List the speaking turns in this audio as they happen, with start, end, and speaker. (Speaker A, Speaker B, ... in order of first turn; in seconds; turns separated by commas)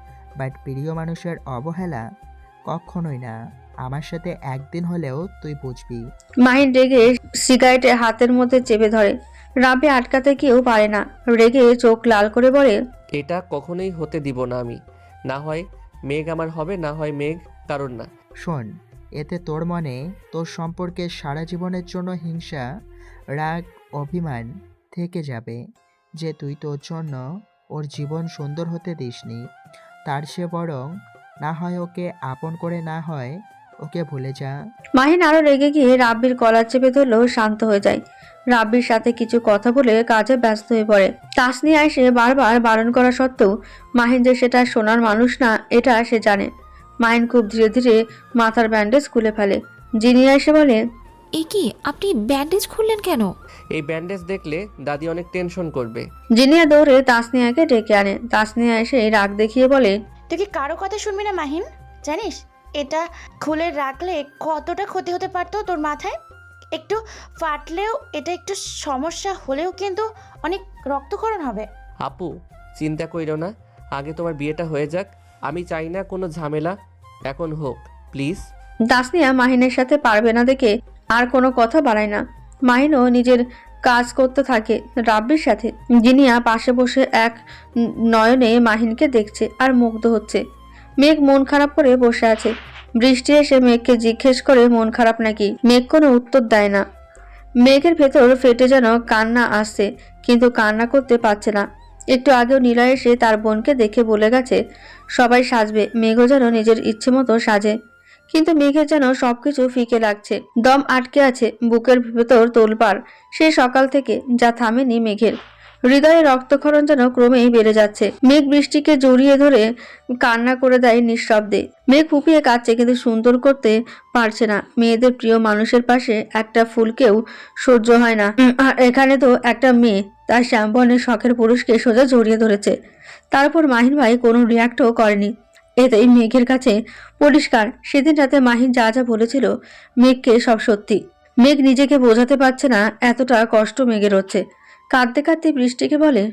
Speaker A: 0.4-2.0, Speaker A: 2.7-6.0, Speaker B: 6.5-12.8, Speaker C: 13.2-14.8, Speaker C: 15.3-18.1, Speaker A: 18.4-22.6, Speaker A: 23.4-25.6, Speaker A: 26.2-27.2, Speaker A: 27.8-29.4, Speaker A: 30.1-30.8, Speaker A: 31.4-34.5, Speaker B: 35.0-38.0, Speaker B: 38.5-46.5, Speaker B: 47.0-50.8, Speaker D: 51.4-53.3, Speaker C: 53.7-56.0, Speaker B: 56.4-59.9, Speaker E: 60.3-66.1, Speaker E: 66.8-71.7, Speaker C: 72.0-76.8, Speaker C: 77.3-78.5, Speaker B: 78.9-87.4, Speaker B: 88.1-90.4, Speaker B: 91.0-96.8, Speaker B: 97.6-104.6, Speaker B: 105.2-107.7, Speaker B: 108.3-115.3, Speaker B: 115.9-119.7, Speaker B: 120.2-132.7, Speaker B: 133.3-139.5, Speaker B: 140.0-144.4, Speaker B: 144.9-146.2